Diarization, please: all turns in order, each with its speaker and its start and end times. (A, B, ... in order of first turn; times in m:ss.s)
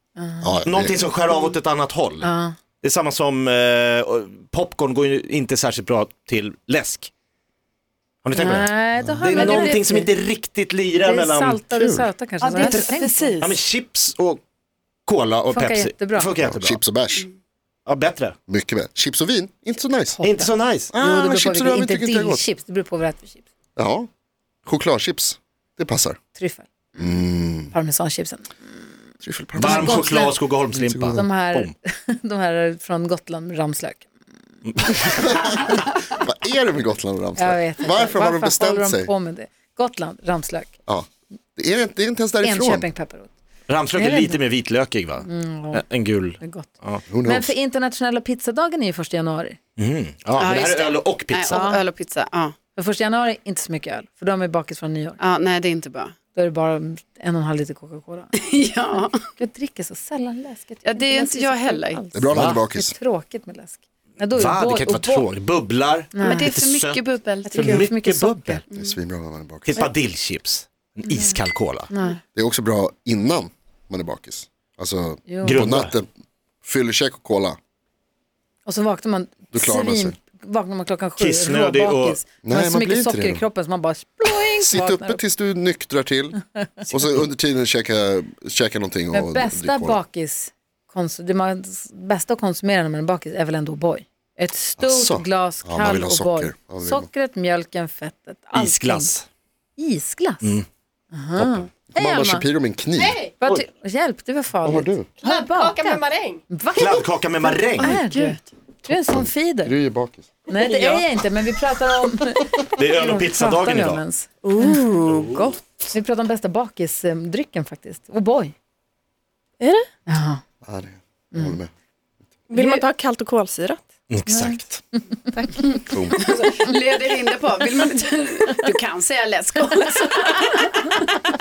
0:00.2-0:00.5 A
0:00.4-0:01.1 B
0:00.6-0:02.3 C
0:02.2-0:02.6 A
0:02.8-0:07.1 C
0:08.2-0:08.7 C
0:08.4-0:10.1 A
0:09.0-0:09.3 B
0:09.2-0:12.1 C
0:11.0-0:13.4 A
0:12.4-0:13.6 D
0:12.6-0:14.4 C
0:15.1-0:16.8 C
0:15.5-0:16.3 A
0:16.4-0:17.3 B
0:17.9-0:18.4 C
0:18.5-0:20.2 B
0:20.2-0:23.4 A
0:20.2-0:20.9 C
0:20.9-0:22.4 B
0:23.8-0:24.1 B
0:24.7-0:26.2 B
0:26.4-0:27.1 A
0:27.0-0:27.7 B
0:27.7-0:28.5 A
0:29.2-0:31.2 B
0:29.6-0:31.7 C
0:29.6-0:30.3 A
0:31.1-0:34.1 A
0:34.7-0:35.0 C
0:35.1-0:39.1 B
0:37.4-0:40.7 A
0:40.9-0:42.9 B
0:42.4-0:43.3 A
0:43.7-0:47.0 C
0:44.0-0:44.4 A
0:45.3-0:45.8 A
0:46.4-0:46.7 A
0:47.1-0:47.5 B
0:47.2-0:49.6 A
0:49.8-0:51.7 C
0:50.4-0:52.6 D
0:51.5-0:51.8 A
0:52.8-0:55.2 A
0:55.2-0:56.1 D
0:56.3-0:58.3 A
0:58.4-0:59.2 D
0:59.3-1:05.3 A
1:00.8-1:02.0 D
1:02.1-1:03.0 B
1:02.3-1:02.6 C
1:04.4-1:08.6 C
1:06.2-1:06.5 A
1:06.2-1:07.9 D
1:07.4-1:08.6 A
1:08.7-1:09.0 D
1:08.7-1:09.8 B
1:09.7-1:11.9 C
1:11.9-1:12.2 A
1:12.4-1:16.1 B
1:15.3-1:15.7 A
1:15.4-1:15.9 C
1:16.6-1:17.6 B
1:18.7-1:25.2 A
1:19.5-1:20.2 B
1:21.2-1:22.2 C
1:22.4-1:23.4 B
1:24.5-1:26.4 B
1:26.9-1:30.0 B
1:29.1-1:39.1 A
1:34.8-1:37.1 B
1:38.6-1:39.3 C
1:39.8-1:40.6 A
1:41.1-1:42.5 A
1:41.4-1:43.2 B
1:43.0-1:43.3 E
1:43.4-1:49.7 A
1:44.6-1:45.1 B
1:45.2-1:46.4 E
1:46.7-1:48.0 C
1:47.8-1:48.4 D
1:49.1-1:50.3 B
1:50.5-1:54.8 A
1:50.5-1:51.0 E
1:52.7-1:54.0 C
1:54.4-1:55.6 E
1:55.1-1:55.5 C
1:55.9-1:58.5 A
1:59.6-1:59.9 E
2:00.1-2:00.4 A
2:00.6-2:01.7 B
2:01.3-2:01.6 A
2:02.5-2:03.8 E
2:02.6-2:02.8 A
2:04.1-2:04.7 C
2:04.3-2:06.3 A
2:05.9-2:06.3 B
2:06.2-2:11.0 D